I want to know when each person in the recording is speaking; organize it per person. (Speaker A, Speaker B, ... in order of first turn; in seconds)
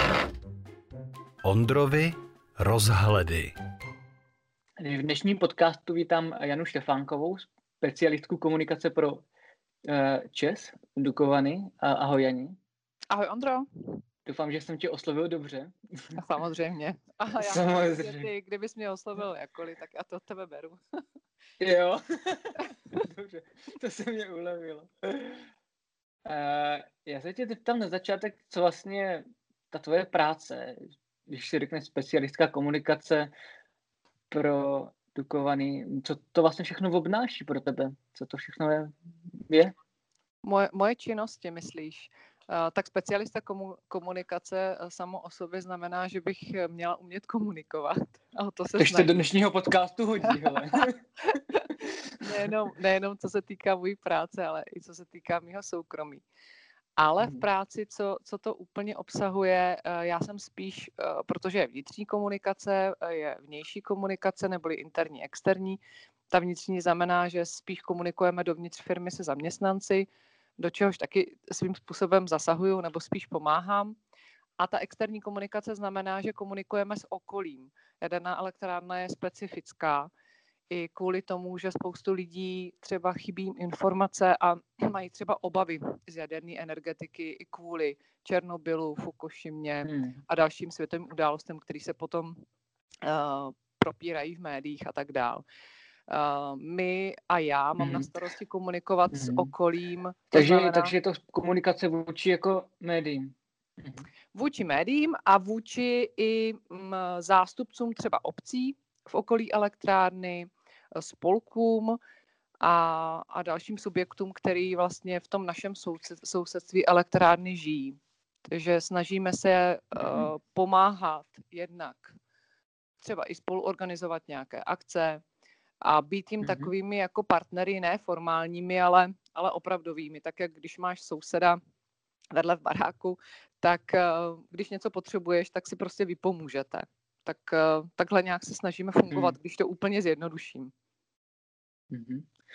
Speaker A: 1.4-3.5
Speaker B: 4.8-9.2, 9.9-12.6, 14.2-16.2, 17.4-18.3, 21.6-25.5, 26.2-33.3, 34.3-39.7, 48.8-51.0, 57.2-57.5, 89.8-90.2, 97.8-98.1, 99.1-99.5, 100.3-104.1, 120.0-120.3, 126.4-126.7, 139.1-139.4, 141.9-142.2
Speaker C: 13.1-13.6, 16.1-20.8, 40.4-49.2, 50.2-51.7, 52.2-56.2, 57.0-65.8, 66.3-74.0, 74.6-80.1, 80.7-92.3, 93.0-95.4, 96.1-100.9, 104.3-112.0, 112.6-118.0, 118.5-122.1, 123.0-125.2, 125.8-131.6, 132.3-140.7